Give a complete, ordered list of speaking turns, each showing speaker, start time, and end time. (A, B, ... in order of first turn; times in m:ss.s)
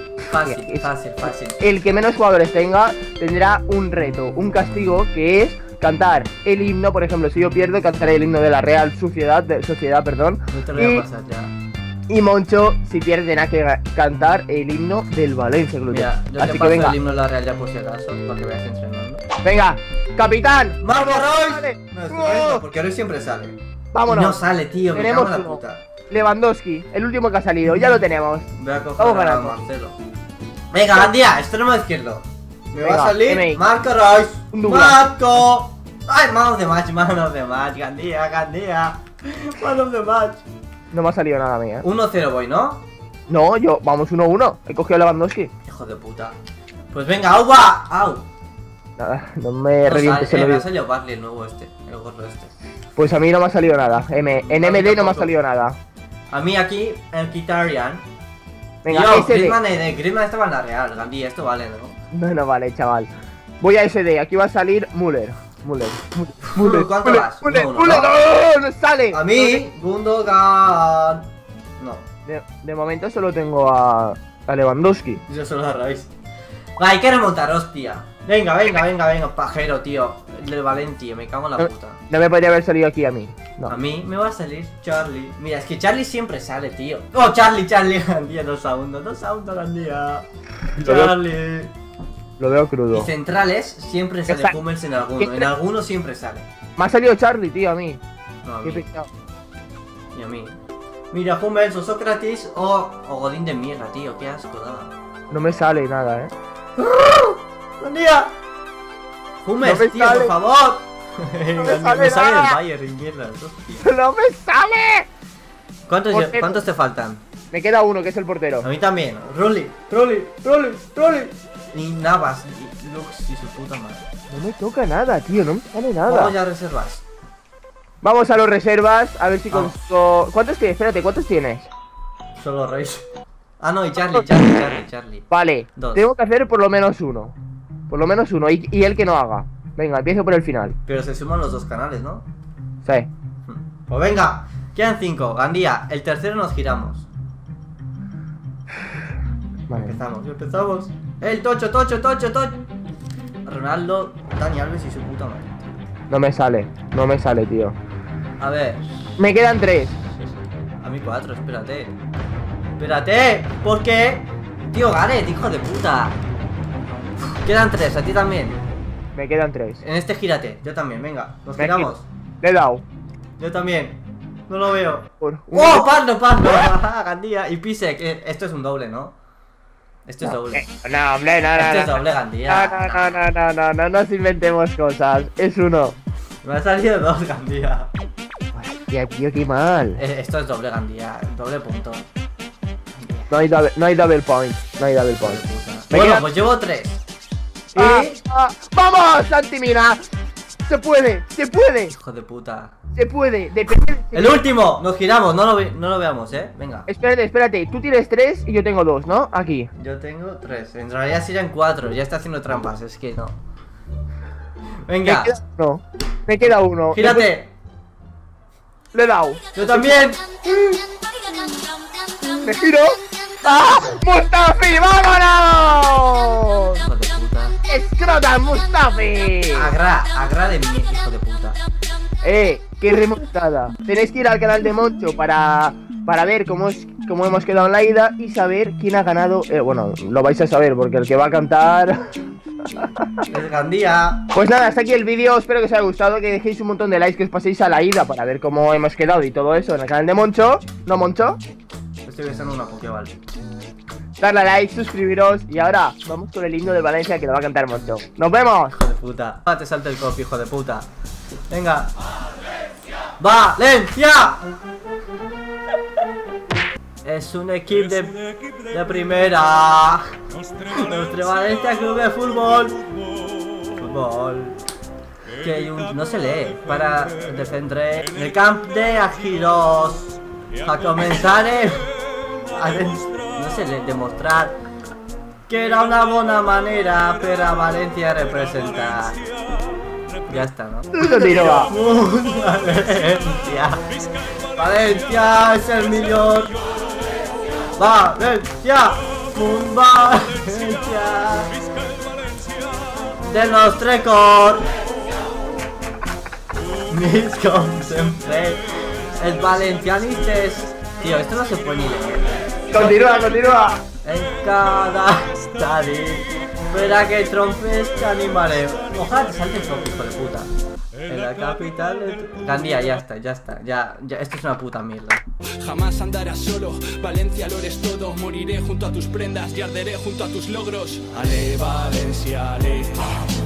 0:00.3-0:01.6 A
0:00.4-0:00.9 B
0:01.5-0:11.0 B
0:10.5-0:11.5 A
0:12.1-0:17.0 B
0:15.9-0:19.2 A
0:19.4-0:22.6 B
0:20.8-0:25.8 A
0:23.9-0:24.4 B
0:24.9-0:29.6 B
0:28.6-0:30.0 A
0:30.7-0:40.4 A
0:32.8-0:33.6 B
0:34.5-0:35.0 B
0:40.9-0:41.8 B
0:41.8-0:42.8 A
0:43.3-0:45.5 B
0:45.6-0:46.4 A
0:46.9-0:48.3 A
0:49.0-0:50.6 B
0:49.8-0:52.5 A
0:53.0-0:55.8 B
0:54.3-0:55.3 A
0:56.3-0:58.0 A
0:58.8-0:59.6 B
0:58.9-1:02.0 A
1:02.1-1:03.1 B
1:03.6-1:09.6 B
1:06.5-1:08.2 A
1:09.1-1:12.0 A
1:12.2-1:15.2 B
1:15.3-1:16.1 A
1:16.8-1:22.0 A
1:21.6-1:23.8 B
1:23.7-1:30.3 A
1:30.7-1:31.1 B
1:30.8-1:31.7 A
1:32.4-1:33.1 B
1:32.9-1:36.5 A
1:34.3-1:34.6 B
1:35.2-1:35.5 B
1:36.8-1:38.0 B
1:38.4-1:38.8 A
1:38.6-1:39.1 B
1:40.1-1:40.6 A
1:41.1-1:44.9 A
1:45.3-1:46.3 B
1:46.8-1:48.3 A
1:49.4-1:53.8 A
1:49.6-1:50.3 B
1:51.6-1:52.6 B
1:53.8-1:55.1 B
1:55.9-1:57.2 A
1:56.1-1:56.6 B
1:57.5-1:58.7 B
1:58.6-2:04.0 A
2:04.3-2:06.3 B
2:06.0-2:07.0 A
2:08.0-2:11.7 B
2:12.4-2:13.0 A
2:13.6-2:16.1 A
2:15.3-2:17.3 B
2:17.9-2:20.8 B
2:20.8-2:22.2 A
2:22.8-2:23.1 B
2:23.5-2:27.1 A
2:29.7-2:29.9 B
2:29.7-2:32.6 A
2:33.4-2:35.7 A
2:36.1-2:37.8 B
2:38.4-2:39.2 A
2:39.2-2:40.0 B
2:40.1-2:42.0 A
2:42.8-2:46.2 A
2:47.3-2:48.6 A
2:49.1-2:49.8 B
2:49.8-2:52.0 A
2:51.6-2:52.8 B
2:53.4-2:59.1 A
2:55.2-2:55.9 B
3:00.0-3:00.7 A
3:00.2-3:06.0 B
3:01.5-3:03.2 A
3:06.4-3:07.9 A
3:08.5-3:10.0 B
3:10.0-3:12.1 A
3:13.0-3:13.3 A
3:13.3-3:15.4 B
3:15.1-3:17.0 A
3:15.9-3:16.2 B
3:17.7-3:18.2 A
3:17.8-3:20.0 B
3:20.7-3:21.9 B
3:21.9-3:22.8 A
3:22.9-3:24.4 B
3:24.1-3:26.9 A
3:26.9-3:29.7 B
3:29.8-3:33.4 A
3:34.8-3:35.4 A
3:35.0-3:37.3 B
3:36.9-3:37.5 A
3:38.9-3:40.0 B
3:39.5-3:40.2 A
3:42.4-3:46.8 B
3:46.8-3:47.6 A
3:47.7-3:49.7 B
3:49.5-3:51.6 A
3:52.2-4:02.1 B
4:02.8-4:03.2 B
4:03.3-4:04.2 A
4:04.3-4:11.4 B
4:12.0-4:13.2 A
4:14.2-4:18.8 B
4:18.7-4:20.9 A
4:21.5-4:21.9 A
4:23.2-4:24.4 A
4:27.0-4:30.0 A
4:30.6-4:32.8 A
4:33.7-4:34.6 A
4:35.4-4:41.9 A
4:42.5-4:44.6 A
4:45.5-4:49.3 A
4:50.3-4:53.8 A
4:51.0-4:51.7 B
4:54.5-4:56.6 A
4:57.8-5:01.6 A
5:03.2-5:04.7 A
5:06.9-5:12.5 A
5:12.7-5:13.8 B
5:14.0-5:20.5 A
5:21.0-5:25.2 A
5:25.5-5:33.3 C